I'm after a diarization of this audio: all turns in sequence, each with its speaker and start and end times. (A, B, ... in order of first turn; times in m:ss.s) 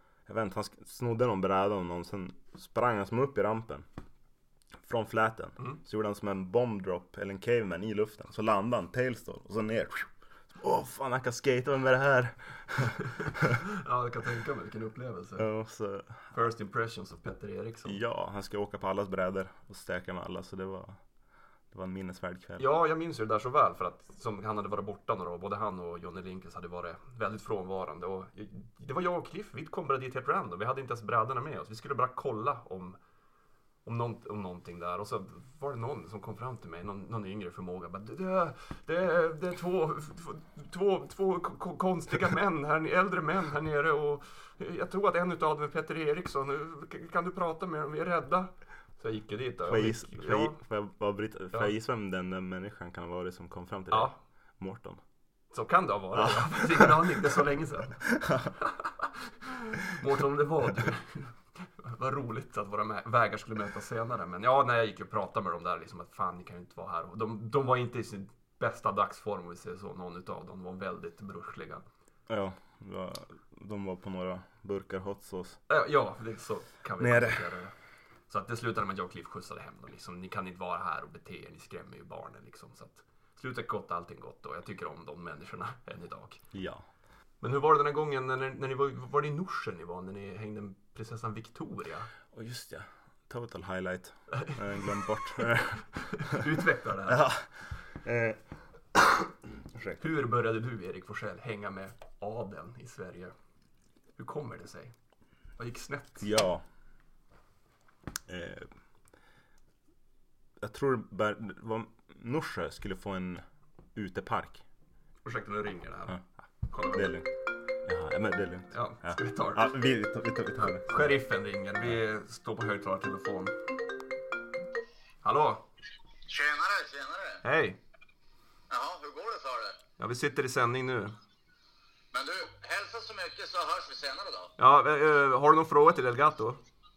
0:00.2-0:03.8 A
0:04.8-0:13.6 A
0:13.6-0:15.5 B
0:15.4-0:16.2 A
0:16.3-0:18.0 B
0:17.8-0:21.0 A
0:21.7-0:22.6 A
0:22.6-0:33.0 B
0:33.8-0:50.6 B
0:49.7-0:55.0 A
0:53.9-0:54.2 B
0:55.5-0:58.0 B
0:56.2-0:57.2 A
0:58.0-0:58.6 A
0:58.6-1:11.8 B
1:12.3-1:15.6 A
1:15.7-1:17.7 B
1:17.0-1:17.4 A
1:18.3-1:26.4 B
1:26.5-1:26.8 A
1:27.4-1:32.1 B
1:32.3-1:36.4 A
1:34.3-1:34.9 B
1:36.1-1:37.2 B
1:37.1-1:38.4 A
1:38.9-1:40.0 A
1:40.0-1:43.3 B
1:44.2-1:44.9 B
1:45.6-1:46.2 B
1:46.2-1:46.6 A
1:48.3-1:48.7 A
1:50.6-1:53.4 A
1:53.9-1:54.6 A
1:55.2-1:56.2 B
1:56.7-1:57.1 B
1:56.9-1:57.3 A
1:57.8-2:01.1 A
1:58.7-1:59.7 B
2:00.9-2:03.7 B
2:05.2-2:05.6 B
2:06.3-2:07.4 C
2:07.4-2:07.8 B
2:08.7-2:09.8 C
2:10.0-2:11.1 B
2:12.1-2:14.5 C
2:14.6-2:16.6 B